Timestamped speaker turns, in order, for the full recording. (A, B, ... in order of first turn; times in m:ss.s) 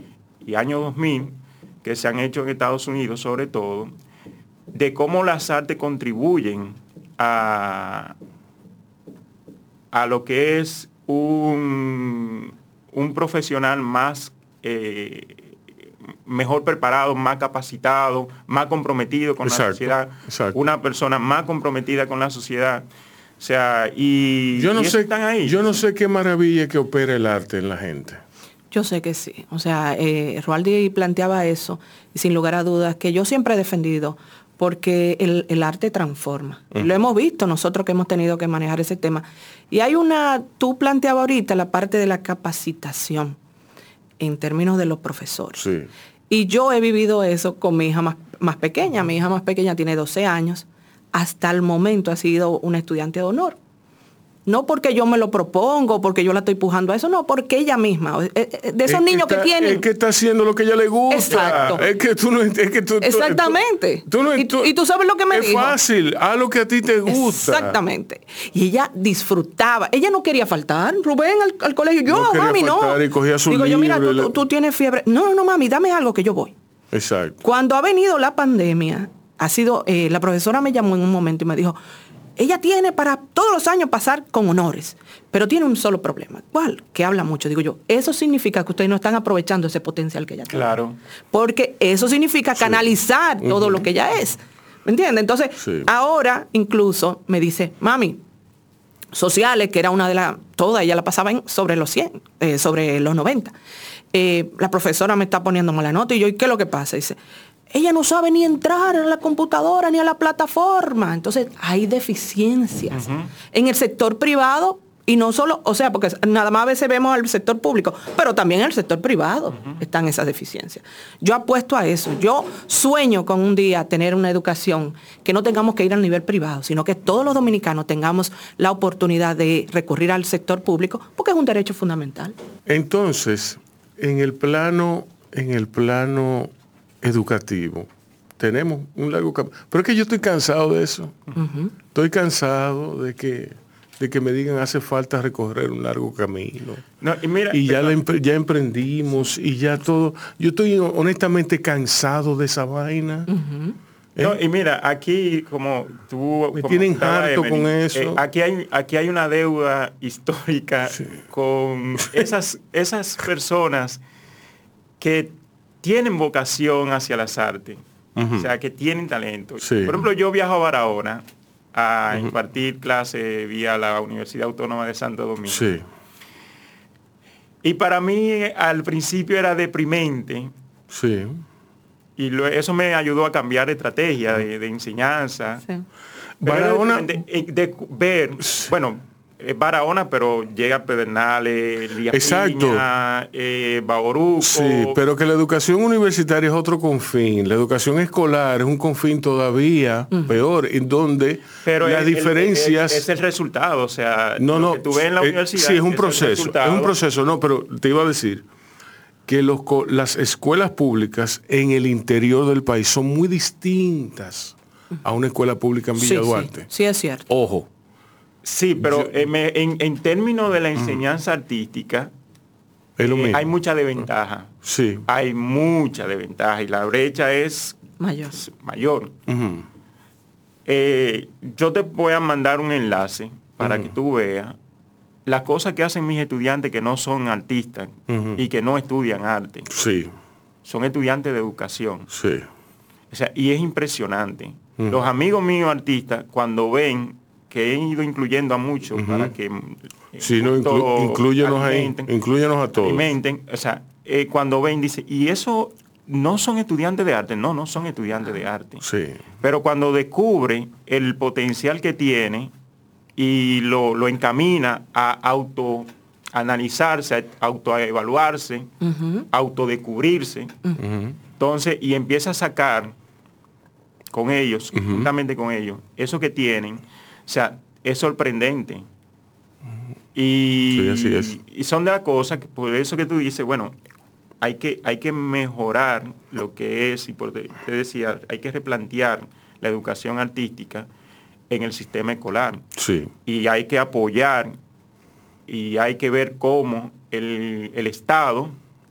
0:00.4-0:03.9 A
0:04.7-0:08.1 A
0:09.9-0:15.5 A
0:16.2-0:22.8 A
0:19.4-0:20.6 B
0:23.4-0:25.6 A
0:24.6-0:28.2 B
0:28.7-0:43.4 C
0:44.2-0:45.7 C
0:45.6-0:45.9 B
0:46.3-0:53.6 C
0:54.4-0:59.8 C
0:58.8-1:04.7 B
1:01.1-1:01.8 C
1:01.3-1:01.8 A
1:03.0-1:05.8 C
1:05.3-1:07.8 B
1:07.1-1:16.5 C
1:12.1-1:14.4 B
1:16.9-1:17.4 B
1:17.4-1:21.8 C
1:22.4-1:30.7 C
1:30.5-1:31.0 A
1:31.3-1:38.2 C
1:32.6-1:32.8 B
1:33.4-1:33.8 B
1:35.6-1:35.9 B
1:39.1-1:43.5 C
1:44.1-1:47.2 C
1:47.7-2:12.3 C
1:52.9-1:53.3 A
2:12.7-2:21.2 B
2:21.4-2:21.7 C
2:21.9-2:26.8 B
2:27.0-2:28.0 A
2:27.5-2:33.3 B
2:33.3-2:33.7 C
2:34.2-2:44.0 A
2:36.5-2:38.2 B
2:45.0-2:47.8 A
2:48.2-2:48.5 B
2:48.3-2:55.7 A
2:49.6-2:50.0 B
2:55.4-2:55.8 B
2:57.6-3:00.5 A
3:00.9-3:01.4 B
3:02.2-3:05.6 A
3:06.4-3:07.1 B
3:06.4-3:15.0 A
3:12.1-3:12.8 B
3:14.4-3:23.1 B
3:21.6-3:26.9 A
3:24.4-3:28.4 B
3:29.3-3:36.7 B
3:36.0-3:37.2 C
3:37.3-3:37.7 B
3:38.4-3:42.1 A
3:38.8-3:39.1 B
3:43.0-3:43.5 B
3:43.0-3:44.5 A
3:44.6-3:45.0 B
3:45.1-3:47.8 A
3:48.0-3:48.4 C
3:48.3-3:49.1 A
3:49.3-3:49.6 B
3:50.6-3:54.6 A
3:53.6-3:53.9 B
3:55.2-3:59.7 A
3:58.1-3:58.4 B
3:59.7-4:00.1 B
4:00.6-4:02.1 A
4:02.1-4:02.5 B
4:03.1-4:12.1 A
4:04.8-4:05.0 B
4:08.9-4:09.3 B
4:10.2-4:13.1 B
4:12.8-4:18.8 A
4:18.8-4:19.2 B
4:19.4-4:22.5 A
4:23.2-4:28.7 A
4:28.8-4:29.2 C
4:29.3-4:30.5 A
4:30.8-4:31.2 B
4:31.4-4:32.9 A
4:34.1-4:38.8 A
4:34.7-4:35.1 B
4:40.1-4:43.7 A
4:40.7-4:41.4 B
4:44.4-4:50.9 A
4:51.5-4:52.6 A
4:52.8-4:53.1 B
4:53.2-4:54.6 A
4:55.5-4:58.5 A